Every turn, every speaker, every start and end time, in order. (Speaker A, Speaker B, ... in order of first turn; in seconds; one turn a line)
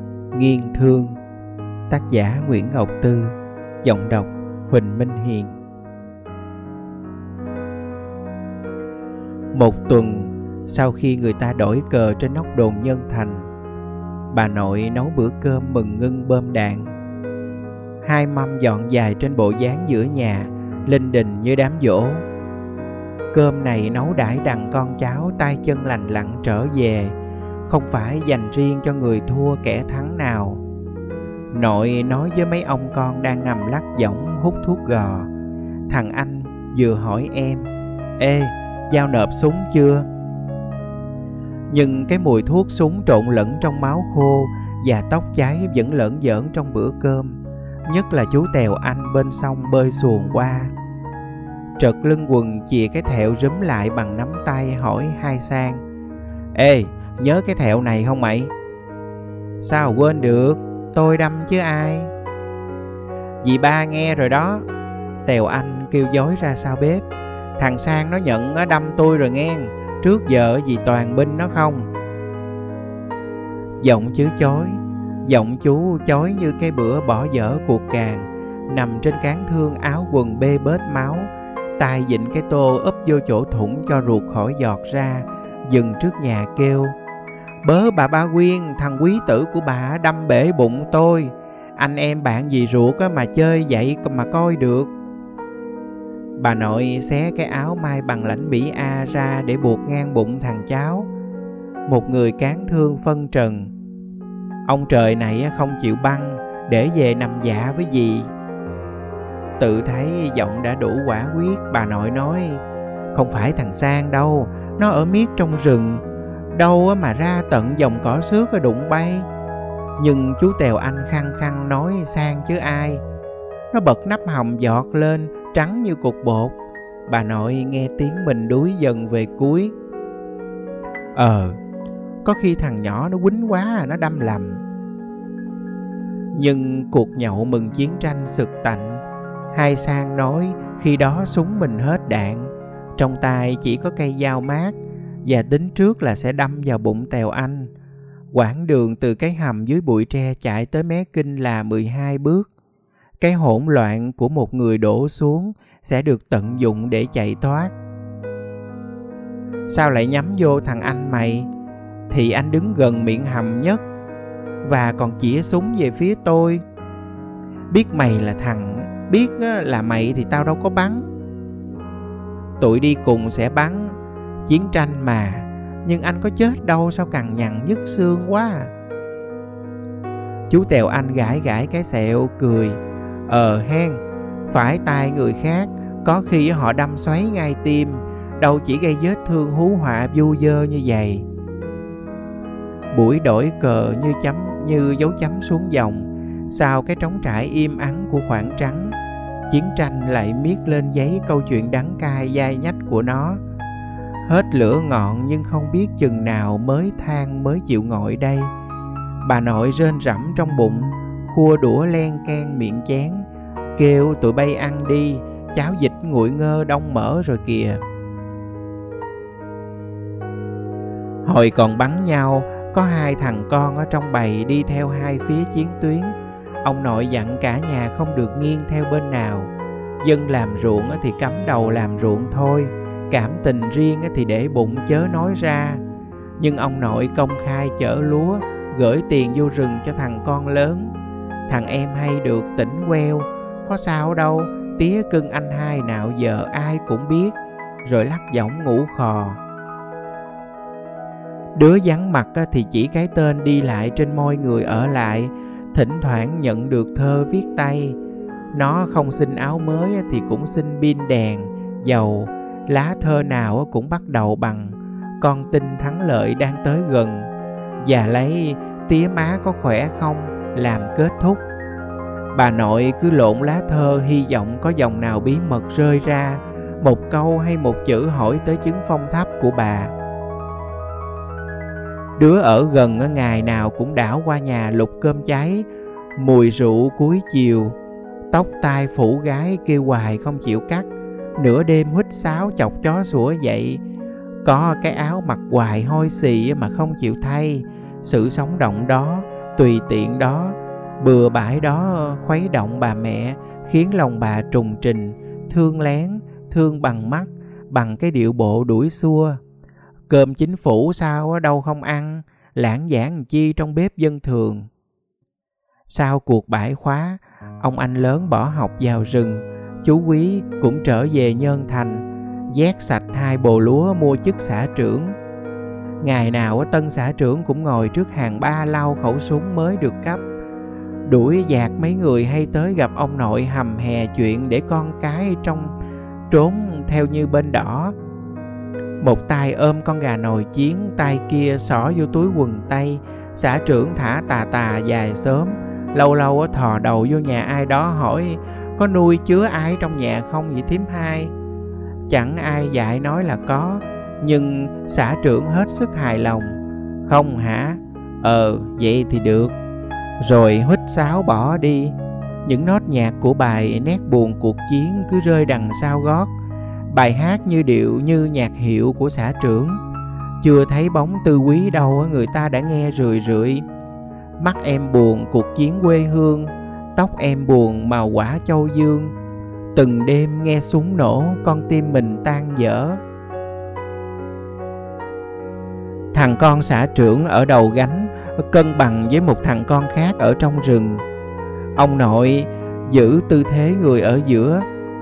Speaker A: 0.3-1.2
Speaker A: 1.9-5.6
Speaker A: 9.5-13.5
Speaker A: 14.3-16.9
Speaker A: 18.0-22.2
Speaker A: 23.3-27.2
Speaker A: 27.7-30.6
Speaker A: 31.5-35.3
Speaker A: 35.9-37.7
Speaker A: 38.2-40.1
Speaker A: 41.7-50.7
Speaker A: 51.8-55.8
Speaker A: 56.5-58.5
Speaker A: 59.6-62.1
Speaker A: 63.4-64.7
Speaker A: 65.2-67.1
Speaker A: 67.6-71.9
Speaker A: 73.8-87.0
Speaker A: 87.6-94.9
Speaker A: 96.4-101.1
Speaker A: 101.9-103.7
Speaker A: 104.7-108.3
Speaker A: 109.6-112.6
Speaker A: 113.1-119.3
Speaker A: 120.0-123.0
Speaker A: 123.7-126.5
Speaker A: 127.1-129.7
Speaker A: 131.2-131.6
Speaker A: 132.2-134.6
Speaker A: 136.3-147.7
Speaker A: 148.3-152.5
Speaker A: 153.2-157.7
Speaker A: 159.7-161.5
Speaker A: 162.1-163.8
Speaker A: 164.6-166.6
Speaker A: 167.7-171.1
Speaker A: 172.6-178.7
Speaker A: 180.5-191.2
Speaker A: 192.9-198.9
Speaker A: 199.5-203.4
Speaker A: 204.3-208.5
Speaker A: 209.2-217.8
Speaker A: 221.2-235.8
Speaker A: 236.4-240.9
Speaker A: 241.5-249.4
Speaker A: 251.6-258.0
Speaker A: 258.5-267.3
Speaker A: 267.8-271.4
Speaker A: 272.3-279.9
Speaker A: 282.2-285.7
Speaker A: 286.2-287.8
Speaker A: 288.3-293.8
Speaker A: 294.4-309.4
Speaker A: 310.1-314.7
Speaker A: 315.9-325.2
Speaker A: 326.0-330.2
Speaker A: 331.1-335.7
Speaker A: 336.3-337.9
Speaker A: 339.0-351.3
Speaker A: 352.1-359.5
Speaker A: 360.2-361.9
Speaker A: 362.5-366.3
Speaker A: 366.9-369.8
Speaker A: 370.4-373.6
Speaker A: 374.4-379.1
Speaker A: 379.7-383.0
Speaker A: 386.1-391.0
Speaker A: 391.8-394.6